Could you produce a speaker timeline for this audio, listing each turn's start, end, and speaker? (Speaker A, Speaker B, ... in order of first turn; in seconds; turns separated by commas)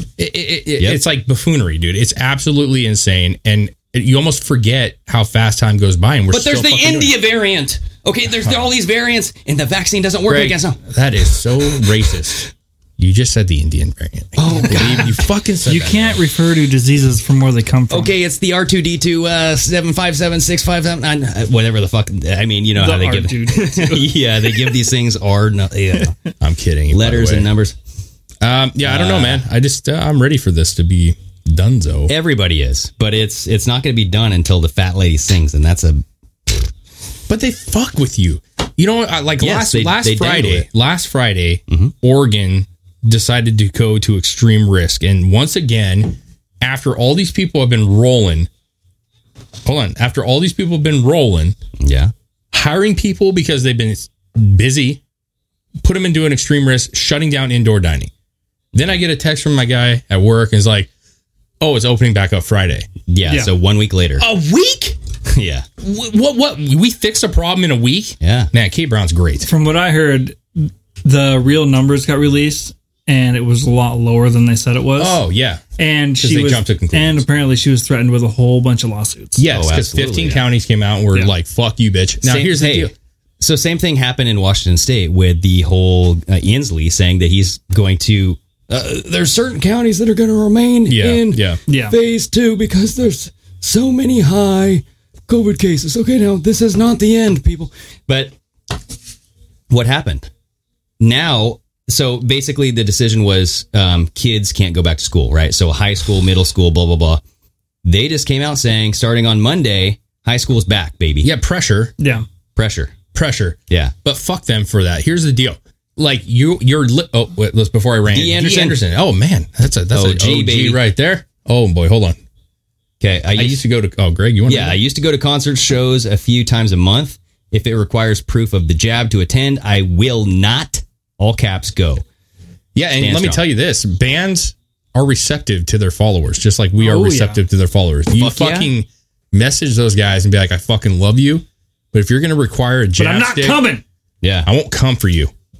Speaker A: 0.2-7.2, Speaker B: 6.3-10.8, Speaker A: 10.3-12.5, Speaker A: 13.0-16.2, Speaker B: 14.3-15.2, Speaker C: 15.6-18.1, Speaker B: 17.9-26.1, Speaker C: 22.8-24.7, Speaker A: 26.4-27.5, Speaker B: 26.9-27.7, Speaker A: 28.4-32.1, Speaker B: 28.8-29.4, Speaker B: 32.1-36.7, Speaker A: 37.3-48.5, Speaker B: 39.4-40.7, Speaker A: 49.6-51.5, Speaker B: 51.8-52.1, Speaker A: 52.5-55.0, Speaker A: 55.8-58.1, Speaker A: 58.7-60.9, Speaker A: 61.6-62.9, Speaker B: 63.1-64.3, Speaker C: 63.3-63.5, Speaker A: 64.2-65.0, Speaker B: 65.3-65.7, Speaker A: 65.8-69.5, Speaker B: 68.2-68.5, Speaker C: 69.5-75.2, Speaker A: 75.0-75.6, Speaker C: 75.8-79.4, Speaker A: 76.2-77.2, Speaker A: 79.4-82.9, Speaker B: 79.4-80.5, Speaker B: 82.2-98.3, Speaker A: 90.9-91.6, Speaker C: 91.7-91.9, Speaker B: 99.7-100.3, Speaker B: 101.0-107.2, Speaker B: 107.8-111.3, Speaker A: 111.2-111.9, Speaker C: 112.0-112.2, Speaker B: 112.5-112.9, Speaker A: 113.1-122.2, Speaker B: 118.1-118.8, Speaker B: 119.9-120.8, Speaker B: 123.0-123.6, Speaker A: 123.3-124.8, Speaker B: 124.5-132.0, Speaker A: 132.7-143.7, Speaker B: 133.0-133.4, Speaker C: 136.8-137.4, Speaker B: 138.2-138.7, Speaker C: 143.0-143.8, Speaker B: 144.2-144.5, Speaker A: 144.4-145.3